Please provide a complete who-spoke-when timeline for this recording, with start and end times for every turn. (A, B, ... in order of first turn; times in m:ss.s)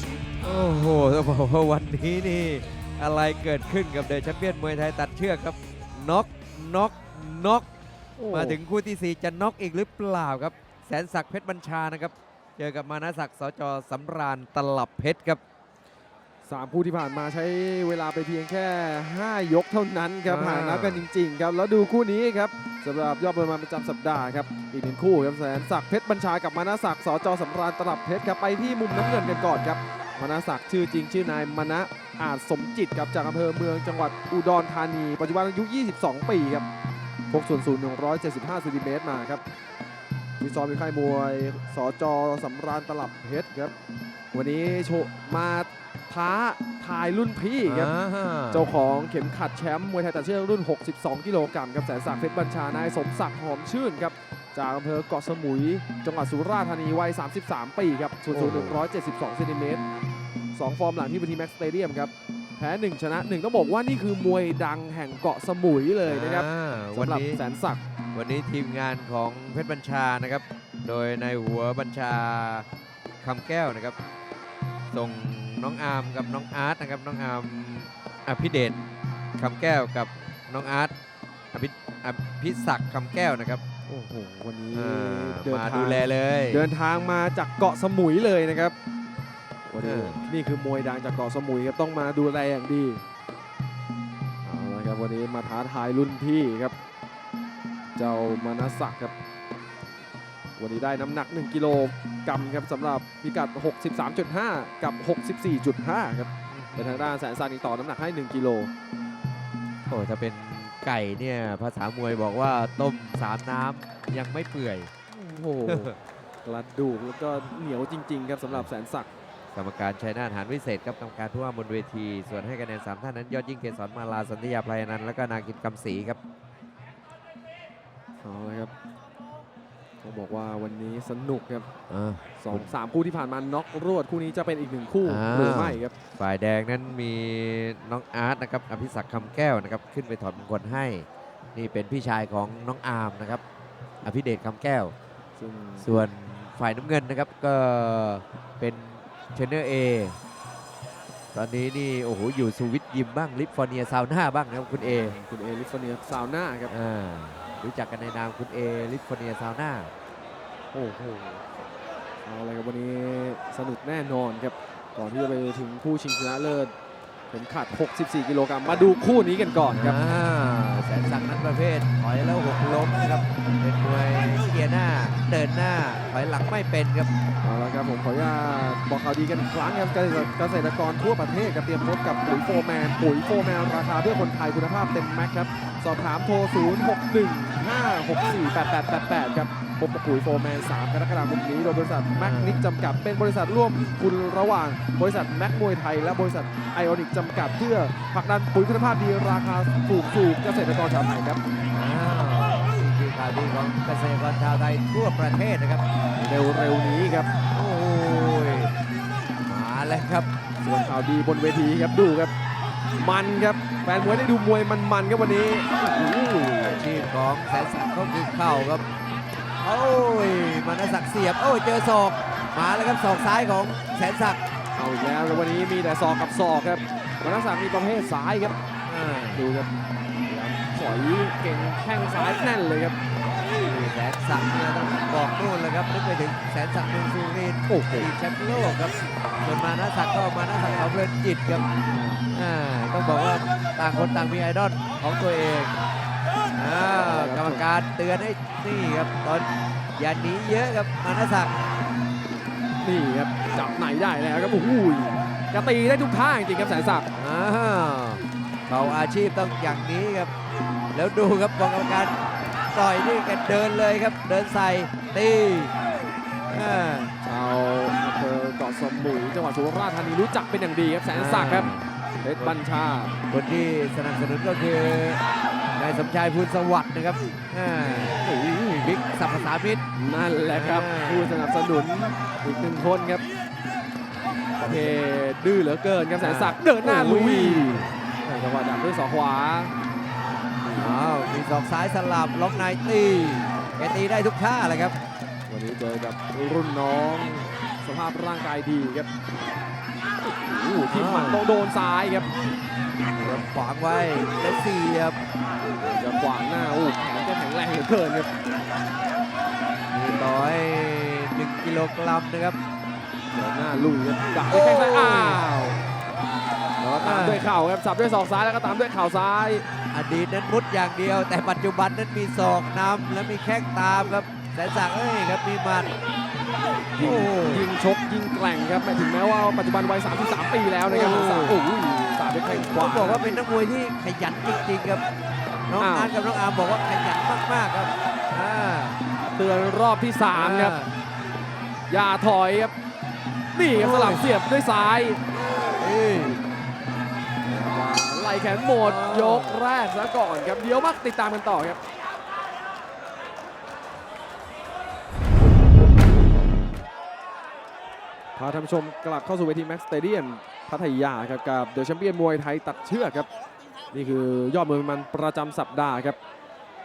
0:00.4-0:07.6 A
0:08.2-0:08.6 B
0:08.3-0:15.4 A
0:16.4-0:36.7 B
0:20.2-0:21.0 A
0:37.3-0:39.4 B
0:40.4-0:43.7 B
0:44.3-0:47.9 B
0:47.6-0:48.7 A
0:48.5-0:59.8 B
0:58.3-0:58.8 A
1:00.5-1:07.8 B
1:06.0-1:07.4 A
1:08.1-1:12.6 A
1:13.2-1:14.0 A
1:14.9-1:20.9 A
1:21.5-1:23.6 A
1:23.9-1:28.8 B
1:24.7-1:26.7 A
1:29.7-1:33.0 B
1:29.8-1:30.2 A
1:34.4-1:36.7 B
1:37.9-1:39.1 B
1:40.6-1:48.7 B
1:46.5-1:47.1 A
1:49.8-1:54.9 A
1:55.1-1:59.1 B
1:59.5-2:06.2 A
2:08.2-2:08.7 B
2:10.0-2:11.7 B
2:11.9-2:12.7 A
2:12.4-2:15.9 B
2:15.0-2:23.4 A
2:24.0-2:24.9 A
2:25.4-2:26.0 B
2:25.8-2:30.2 A
2:31.3-2:35.2 A
2:34.8-2:36.7 B
2:36.7-2:39.9 A
2:40.7-2:41.4 B
2:42.2-2:46.7 B
2:47.3-2:50.0 B
2:49.7-2:57.1 A
2:57.4-3:21.4 B
3:12.2-3:12.6 A
3:21.7-3:25.8 A
3:26.2-3:27.3 B
3:27.5-3:28.7 A
3:29.4-3:30.3 A
3:30.6-3:32.3 B
3:33.0-3:36.8 B
3:36.8-3:38.8 A
3:39.6-3:44.4 A
3:44.7-3:48.6 B
3:48.9-3:49.4 A
3:49.3-3:49.7 B
3:50.2-3:53.0 B
3:53.6-4:01.6 A
3:57.7-3:58.1 B
4:01.9-4:02.2 B
4:02.3-4:05.8 A
4:06.5-4:11.5 A
4:06.8-4:07.6 B
4:12.8-4:17.1 B
4:17.2-4:20.3 A
4:20.9-4:22.1 A
4:22.7-4:25.7 A
4:26.5-4:27.1 A
4:27.2-4:31.7 B
4:31.1-4:31.9 A
4:32.2-4:33.1 B
4:33.3-4:35.2 A
4:35.7-4:39.8 A
4:40.0-4:43.2 B
4:40.5-4:41.3 A
4:44.6-4:49.7 B
4:44.6-4:45.0 A
4:46.2-4:47.9 A
4:50.6-4:50.9 B
4:50.8-4:55.0 A
4:55.5-4:59.1 B
5:00.2-5:02.3 B
5:00.9-5:01.4 A
5:03.1-5:05.2 A
5:05.8-5:08.3 B
5:09.9-5:12.6 A
5:13.3-5:15.8 B
5:14.5-5:15.4 A
5:16.8-5:17.5 A
5:17.0-5:19.7 B
5:19.9-5:25.9 A
5:27.0-5:27.7 A
5:27.0-5:33.3 B
5:30.8-5:31.6 A
5:32.5-5:35.0 A
5:35.7-5:39.0 A
5:35.8-5:36.1 B
5:39.3-5:40.8 B
5:40.3-5:40.9 A
5:41.9-5:42.7 B
5:43.5-5:45.2 B
5:43.7-5:44.2 A
5:45.8-5:46.4 A
5:47.4-5:51.8 B
5:48.8-5:49.6 A
5:58.3-6:03.3 B
6:03.9-6:06.2 B